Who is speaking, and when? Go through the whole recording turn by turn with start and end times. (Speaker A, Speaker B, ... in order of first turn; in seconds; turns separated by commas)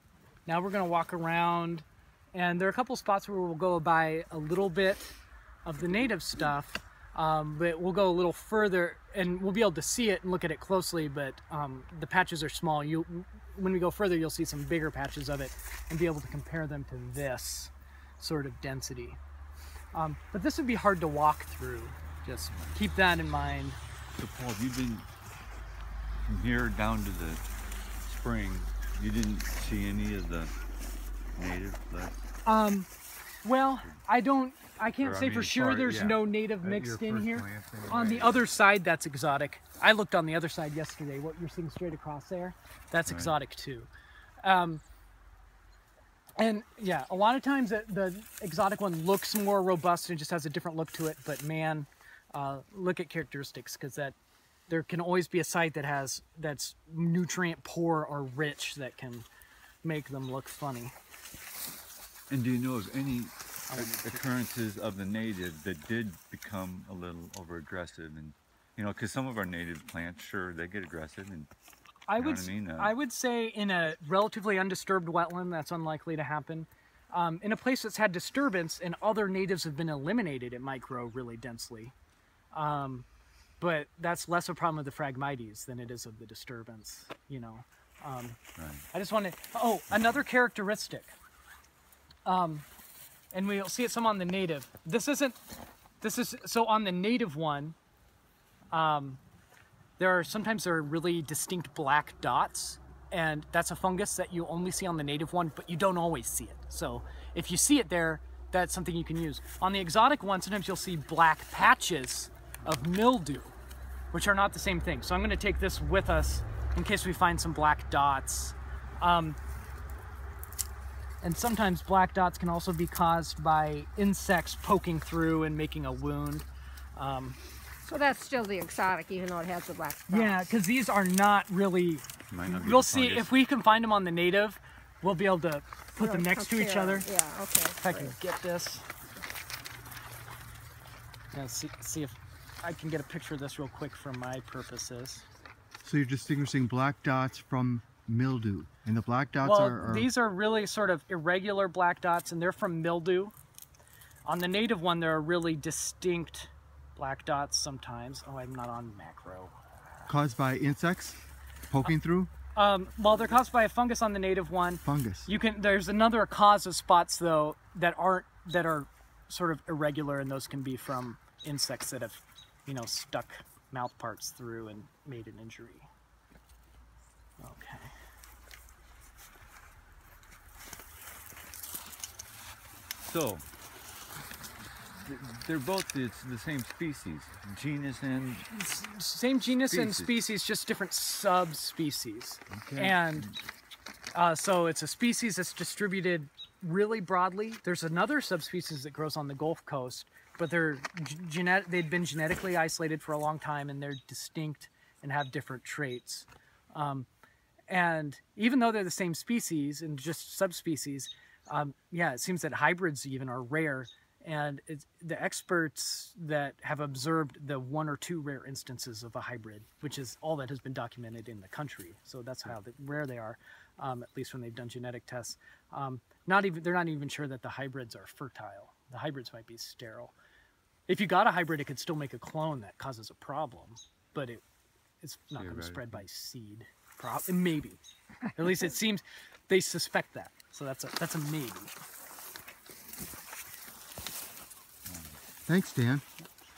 Speaker A: 0.5-19.2, Speaker A: 19.9-23.8, Speaker B: 24.2-25.1, Speaker B: 26.2-27.4, Speaker B: 28.1-30.5, Speaker B: 31.4-32.2, Speaker A: 32.5-32.9, Speaker A: 33.4-43.9, Speaker B: 35.0-38.5, Speaker B: 43.0-43.3, Speaker A: 44.4-44.8, Speaker A: 46.4-54.2, Speaker A: 54.7-59.3, Speaker A: 59.8-61.0, Speaker B: 62.3-71.5, Speaker A: 63.7-64.2, Speaker A: 72.1-81.9, Speaker B: 72.2-72.9, Speaker A: 82.5-83.1, Speaker A: 83.6-88.4, Speaker B: 88.6-88.9, Speaker A: 88.9-91.1, Speaker A: 92.2-92.7, Speaker A: 93.3-95.4, Speaker A: 96.0-97.8, Speaker A: 98.7-99.2, Speaker A: 100.0-113.5, Speaker A: 114.1-119.4, Speaker A: 121.2-127.4, Speaker C: 127.8-130.4, Speaker A: 130.1-137.1, Speaker B: 132.3-133.3, Speaker C: 136.0-138.2, Speaker A: 137.8-138.8, Speaker A: 141.3-145.2, Speaker D: 145.8-150.1, Speaker A: 149.4-153.3, Speaker A: 154.3-159.6, Speaker D: 160.1-161.2, Speaker D: 161.7-162.3, Speaker A: 162.6-175.9, Speaker D: 164.8-165.3, Speaker A: 177.4-177.9, Speaker B: 183.0-183.4, Speaker B: 184.9-188.6, Speaker A: 188.5-193.3, Speaker B: 189.6-190.1, Speaker B: 192.5-193.4, Speaker A: 194.1-207.1, Speaker A: 207.7-230.2, Speaker A: 230.9-234.4, Speaker A: 235.0-237.8, Speaker B: 235.4-236.0, Speaker A: 238.3-241.7, Speaker B: 244.9-245.2, Speaker D: 245.5-246.0